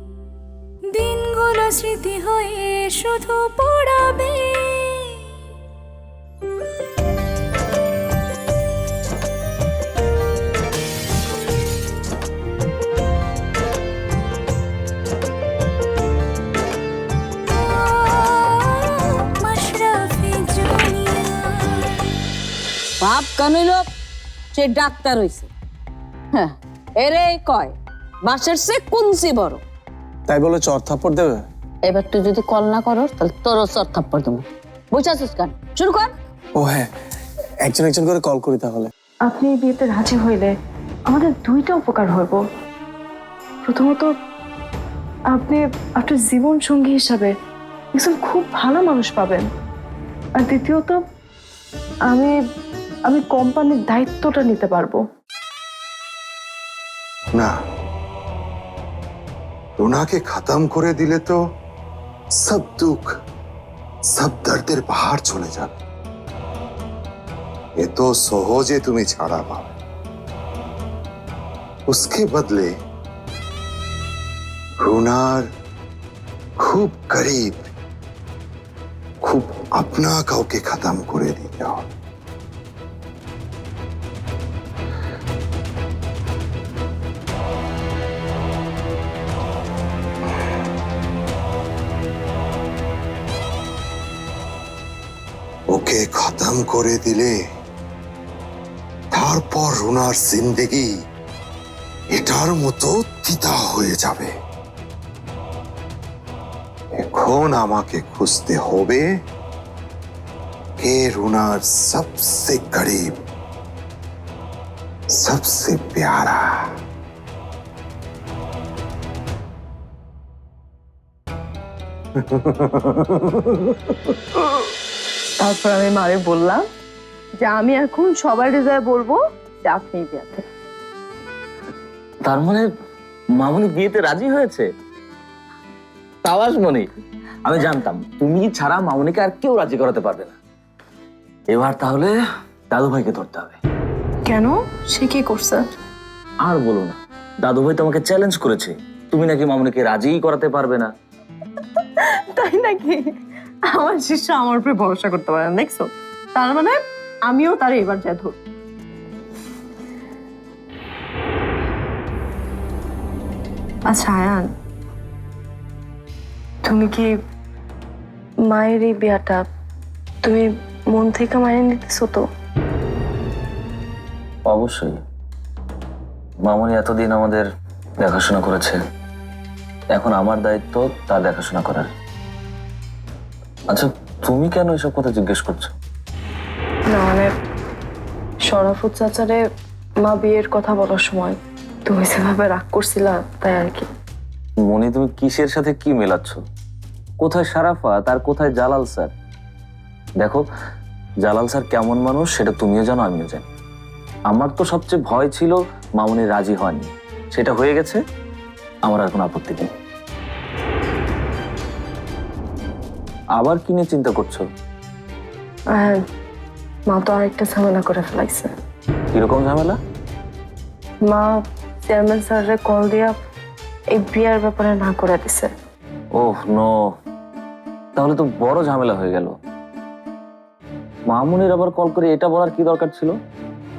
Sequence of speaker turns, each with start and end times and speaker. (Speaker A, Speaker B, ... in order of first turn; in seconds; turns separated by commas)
Speaker A: 0.9-5.2, Speaker A: 17.5-21.9, Speaker B: 23.0-23.9, Speaker B: 24.5-25.5, Speaker B: 26.3-29.6, Speaker C: 30.3-31.4, Speaker B: 31.8-36.1, Speaker C: 36.6-36.9, Speaker C: 37.6-38.9, Speaker D: 39.2-40.5, Speaker D: 41.1-42.4, Speaker D: 43.6-44.1, Speaker D: 45.3-47.3, Speaker D: 47.9-49.5, Speaker D: 50.4-51.0, Speaker D: 52.1-52.4, Speaker D: 53.1-55.0, Speaker E: 57.3-57.6, Speaker E: 59.8-61.4, Speaker E: 62.3-63.1, Speaker E: 64.1-65.8, Speaker E: 67.8-69.8, Speaker E: 71.9-72.8, Speaker E: 74.8-75.5, Speaker E: 76.6-77.7, Speaker E: 79.2-81.9, Speaker E: 95.7-97.4, Speaker E: 99.1-101.0, Speaker E: 102.1-104.3, Speaker E: 106.9-109.2, Speaker E: 110.8-113.2, Speaker E: 115.1-116.7, Speaker E: 122.2-123.4, Speaker D: 125.4-126.7, Speaker D: 127.4-130.4, Speaker F: 132.2-132.7, Speaker F: 133.4-134.7, Speaker F: 136.2-136.9, Speaker F: 137.4-140.4, Speaker F: 141.5-142.1, Speaker F: 142.7-143.6, Speaker D: 144.2-145.6, Speaker F: 146.4-150.9, Speaker D: 152.0-153.1, Speaker D: 153.7-158.4, Speaker D: 163.9-164.5, Speaker D: 166.7-167.1, Speaker D: 168.5-169.4, Speaker D: 170.2-172.2, Speaker F: 174.5-175.0, Speaker F: 176.4-177.4, Speaker F: 178.0-178.8, Speaker F: 179.9-181.9, Speaker F: 183.7-185.7, Speaker D: 186.9-187.3, Speaker D: 188.5-189.4, Speaker D: 190.0-193.9, Speaker F: 194.7-196.4, Speaker F: 197.2-199.1, Speaker F: 201.2-203.5, Speaker F: 204.3-208.0, Speaker F: 208.8-209.7, Speaker F: 213.4-214.4, Speaker D: 215.7-216.0, Speaker D: 216.9-218.5, Speaker F: 219.1-219.8, Speaker D: 221.1-223.2, Speaker D: 223.9-225.5, Speaker F: 226.2-226.7, Speaker F: 228.0-229.3, Speaker F: 231.1-233.2